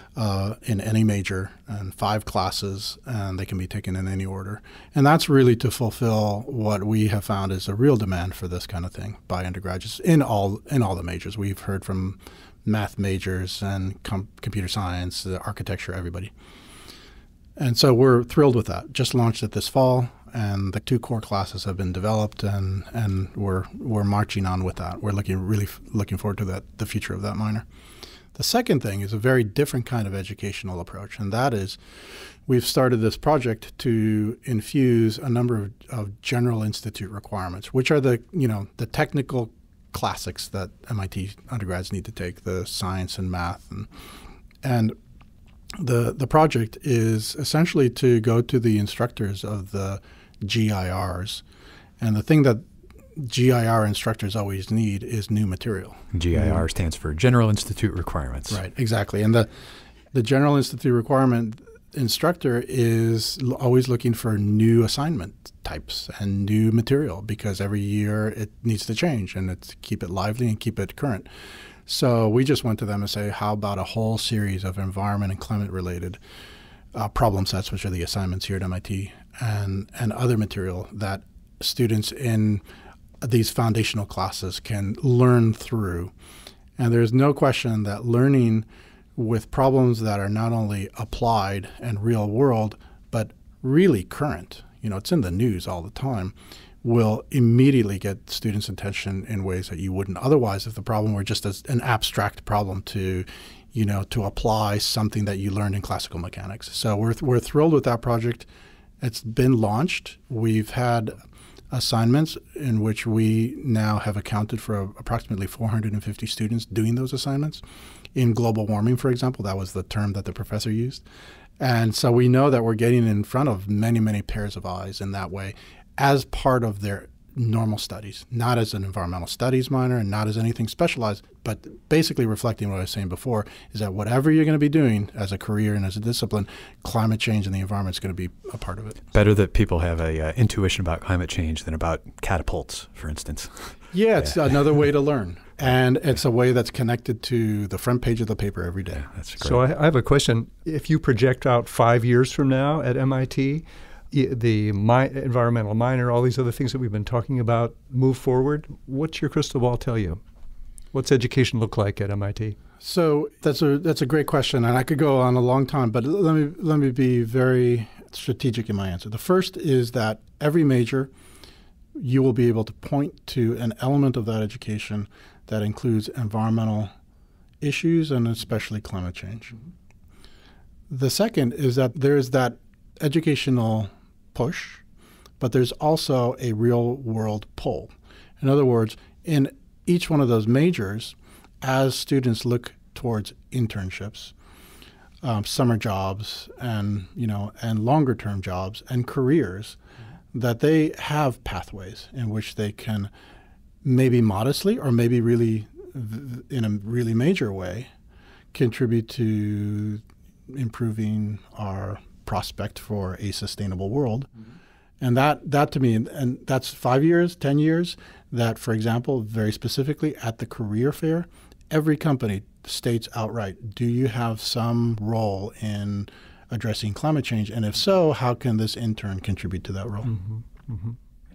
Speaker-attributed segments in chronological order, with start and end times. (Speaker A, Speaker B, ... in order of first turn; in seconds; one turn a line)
Speaker A: 0.2-16.3
Speaker A: 17.6-27.7
Speaker A: 28.3-31.8
Speaker A: 32.5-43.9
Speaker A: 44.6-45.0
Speaker A: 45.8-51.4
Speaker A: 52.0-56.6
Speaker B: 56.1-58.6
Speaker A: 58.5-59.5
Speaker A: 60.1-71.3
Speaker A: 71.9-76.2
Speaker A: 76.9-82.6
Speaker A: 83.2-86.1
Speaker A: 86.8-108.5
Speaker A: 109.0-117.6
Speaker A: 118.1-121.0
Speaker A: 121.6-139.0
Speaker B: 139.1-144.3
Speaker A: 143.9-149.1
Speaker B: 149.0-149.6
Speaker C: 149.4-160.2
Speaker C: 160.9-162.6
Speaker A: 162.8-171.1
Speaker A: 171.9-176.9
Speaker A: 177.6-179.6
Speaker A: 180.9-184.8
Speaker A: 185.4-194.3
Speaker A: 195.2-199.8
Speaker A: 200.3-203.1
Speaker A: 203.8-207.9
Speaker A: 208.5-214.3
Speaker A: 215.0-230.1
Speaker C: 230.1-231.0